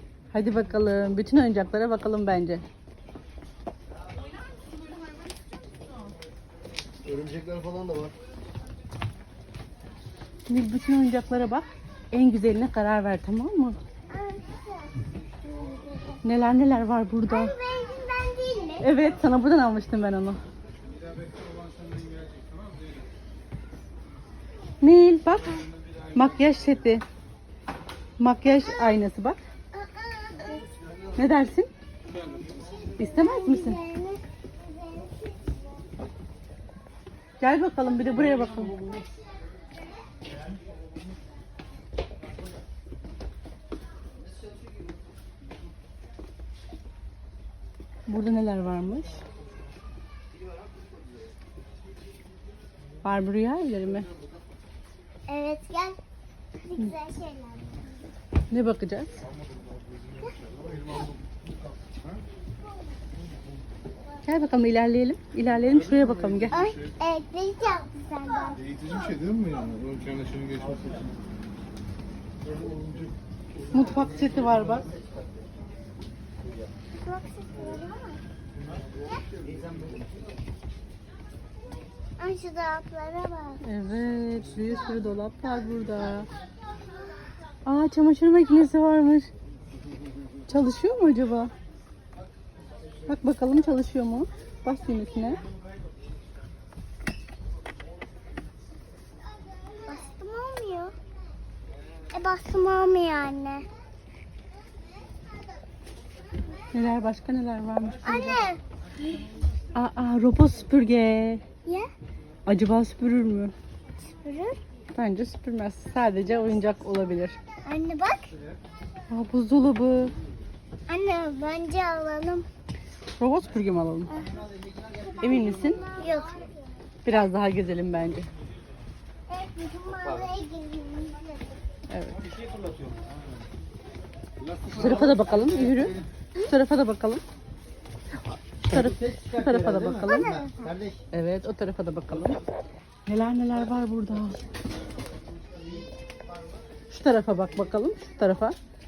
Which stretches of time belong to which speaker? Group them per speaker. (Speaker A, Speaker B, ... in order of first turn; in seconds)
Speaker A: 0.3-2.6, 10.5-13.8, 16.2-17.5, 18.8-20.4, 24.8-27.0, 28.2-29.4, 31.1-31.7, 33.0-33.8, 37.4-38.8, 48.1-49.2, 53.0-54.1, 58.5-59.2, 64.2-66.6, 73.7-74.9, 83.6-86.3, 87.7-89.3, 90.5-91.5, 93.1-95.4, 106.7-108.3, 109.7-111.4, 112.5-113.5, 114.9-117.4, 119.1-120.1, 123.2-124.1, 125.2-125.8, 127.0-128.3, 131.9-132.2, 134.7-137.2, 138.3-140.3, 141.1-142.4, 143.1-144.4, 146.9-148.5
Speaker B: 7.1-8.1, 69.0-71.0
Speaker C: 14.1-16.2, 17.3-18.9, 28.4-28.9, 29.7-30.7, 32.3-35.9, 39.0-39.6, 55.3-56.0, 56.6-57.8, 66.5-68.9, 76.9-78.2, 82.2-83.6, 99.8-100.9, 102.1-103.7, 108.0-108.6, 114.0-114.6, 117.7-118.3, 120.9-122.5, 125.0-126.6, 129.3-131.6, 140.0-140.8